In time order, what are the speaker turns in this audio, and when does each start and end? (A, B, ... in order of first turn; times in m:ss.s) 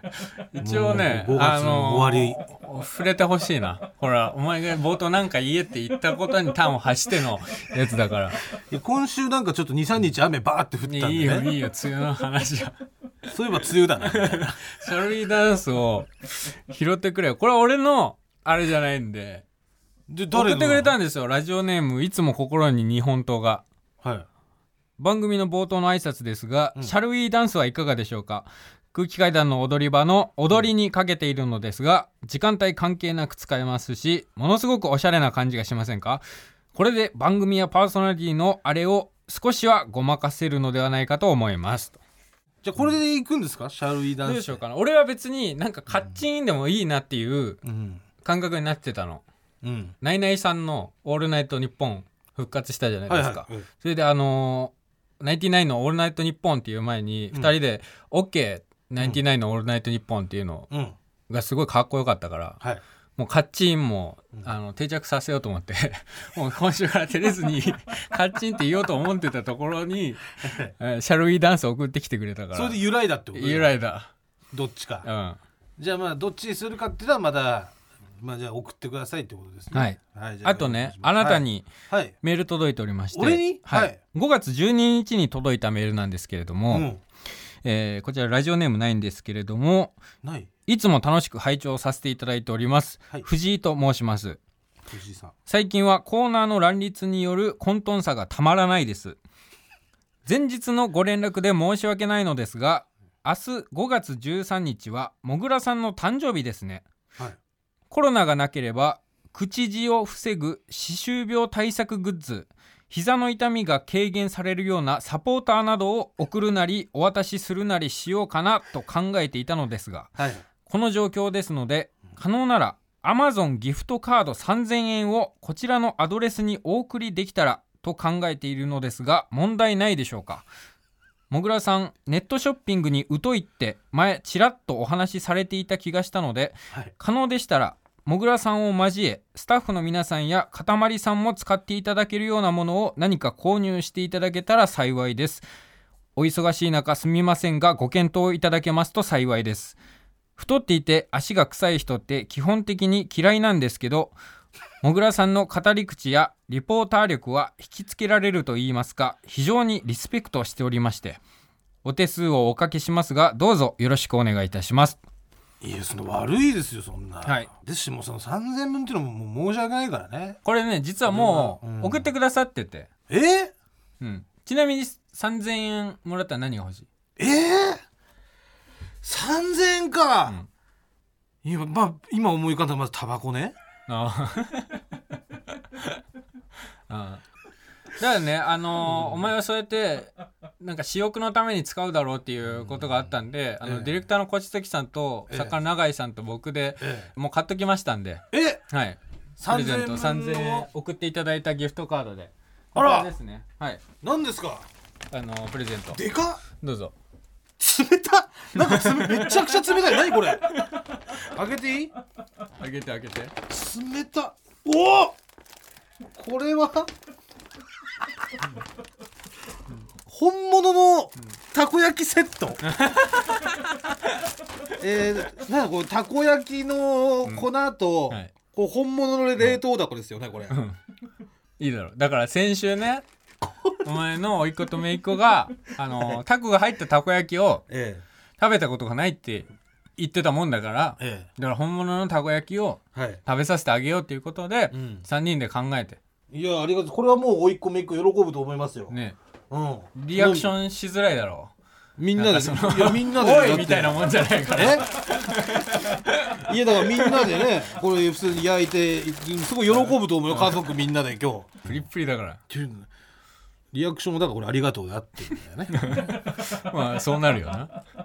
0:00.5-0:08.4 A
0:00.6-0:02.4 B
0:08.6-0:11.5 B
0:10.8-0:12.8 A
0:13.3-0:14.6 B
0:14.0-0:19.4 A
0:20.1-0:20.9 B
0:20.3-0:23.6 A
0:24.0-0:24.3 B
0:25.0-0:42.0 A
0:42.6-0:44.6 B
0:44.2-0:47.6 A
0:47.6-0:48.0 B
0:48.2-0:49.2 A
0:49.6-0:50.0 B
0:50.0-1:00.7 A
0:53.1-0:53.7 B
1:00.7-1:01.0 B
1:01.3-1:02.6 A
1:03.2-1:12.8 A
1:10.4-1:10.7 B
1:12.5-1:13.7 B
1:13.3-1:14.1 A
1:14.5-1:15.1 B
1:15.0-1:15.4 A
1:15.8-1:22.2 B
1:19.7-1:21.7 A
1:22.2-1:26.9 A
1:23.1-1:24.0 B
1:26.7-1:27.0 B
1:27.6-1:30.0 A
1:30.2-1:30.5 B
1:30.7-1:34.4 A
1:34.9-1:35.3 B
1:35.5-1:39.2 A
1:40.2-1:46.9 A
1:47.9-2:10.5 A
2:00.2-2:00.4 B
2:11.3-2:25.4 A
2:26.2-2:29.8 A
2:30.4-2:34.2 A
2:34.8-2:41.2 A
2:41.8-2:45.0 A
2:45.6-2:50.4 B
2:47.2-2:47.5 A
2:50.4-2:52.9 A
2:51.1-2:52.1 B
2:53.1-2:53.5 B
2:54.0-2:56.9 A
2:57.2-2:57.8 B
2:59.0-3:00.4 B
3:01.4-3:03.6 B
3:03.9-3:04.8 A
3:06.9-3:07.2 A
3:08.0-3:23.8 A
3:08.8-3:09.3 B
3:12.5-3:12.9 B
3:13.6-3:14.0 B
3:15.3-3:15.6 B
3:16.8-3:17.1 B
3:18.3-3:18.6 B
3:19.4-3:20.7 B
3:22.8-3:23.1 B
3:24.0-3:24.7 B
3:25.1-3:26.9 A
3:25.9-3:26.4 B
3:27.6-3:30.6 B
3:28.6-3:30.0 A
3:30.5-3:31.0 A
3:31.2-3:31.9 B
3:32.6-3:33.3 A
3:33.5-3:35.2 B
3:36.2-3:36.9 B
3:40.1-3:42.6 B
3:42.6-3:43.7 A
3:44.8-3:50.6 B
3:50.5-3:50.8 A
3:51.6-3:53.0 A
3:53.4-3:53.8 B
3:53.8-3:57.7 A
3:55.9-3:56.2 B
3:57.7-3:58.0 B
3:58.4-4:06.0 A
4:01.0-4:01.3 B
4:02.9-4:03.2 B
4:04.7-4:05.1 B
4:06.3-4:08.9 B
4:08.9-4:09.2 A
4:09.5-4:10.5 B
4:10.0-4:11.5 A
4:12.0-4:14.9 B
4:12.2-4:17.4 A
4:16.4-4:21.8 B
4:20.3-4:20.6 A
4:21.6-4:22.4 A
4:22.5-4:22.9 B
4:23.7-4:25.8 B
4:25.7-4:27.8 A